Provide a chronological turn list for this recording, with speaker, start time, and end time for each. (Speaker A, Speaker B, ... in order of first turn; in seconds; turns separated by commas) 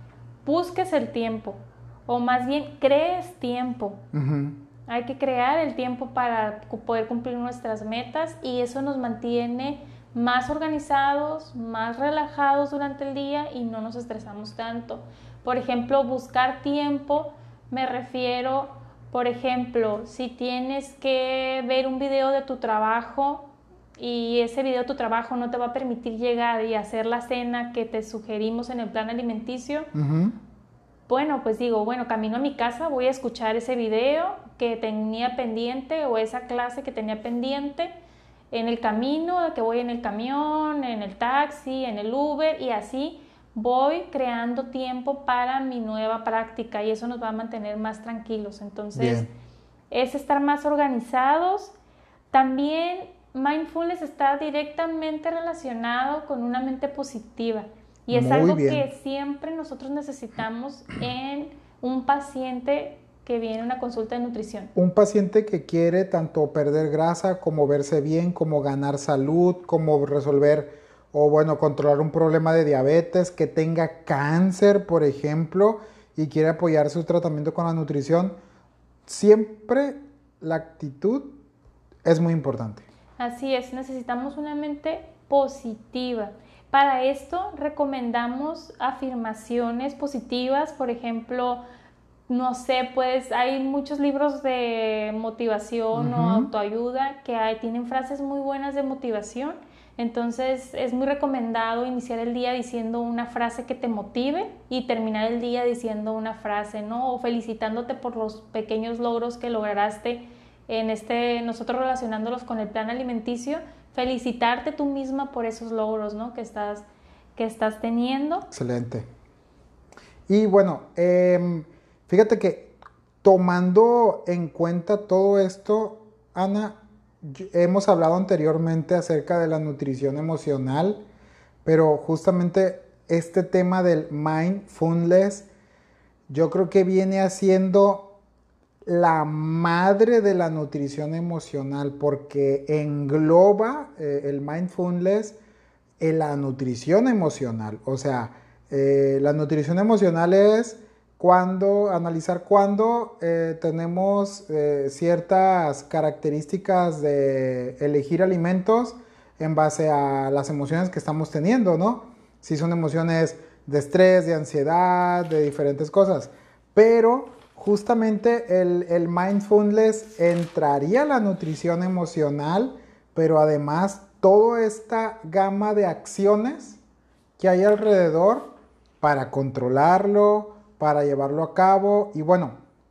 Speaker A: 0.4-4.0, Speaker B: 4.1-4.6, Speaker A: 4.9-29.9, Speaker B: 29.9-30.4, Speaker A: 31.1-37.9, Speaker A: 38.5-49.3, Speaker B: 49.0-49.3, Speaker A: 49.9-51.7, Speaker A: 52.3-64.7, Speaker B: 58.1-58.9, Speaker B: 64.8-78.4, Speaker B: 79.1-81.3, Speaker B: 82.0-82.9, Speaker A: 83.2-91.6, Speaker A: 92.3-118.5, Speaker B: 95.9-96.5, Speaker B: 118.5-119.1, Speaker B: 120.3-131.0, Speaker B: 131.6-135.5, Speaker B: 136.3-138.1, Speaker B: 138.8-145.4, Speaker B: 146.0-176.8, Speaker B: 177.4-182.6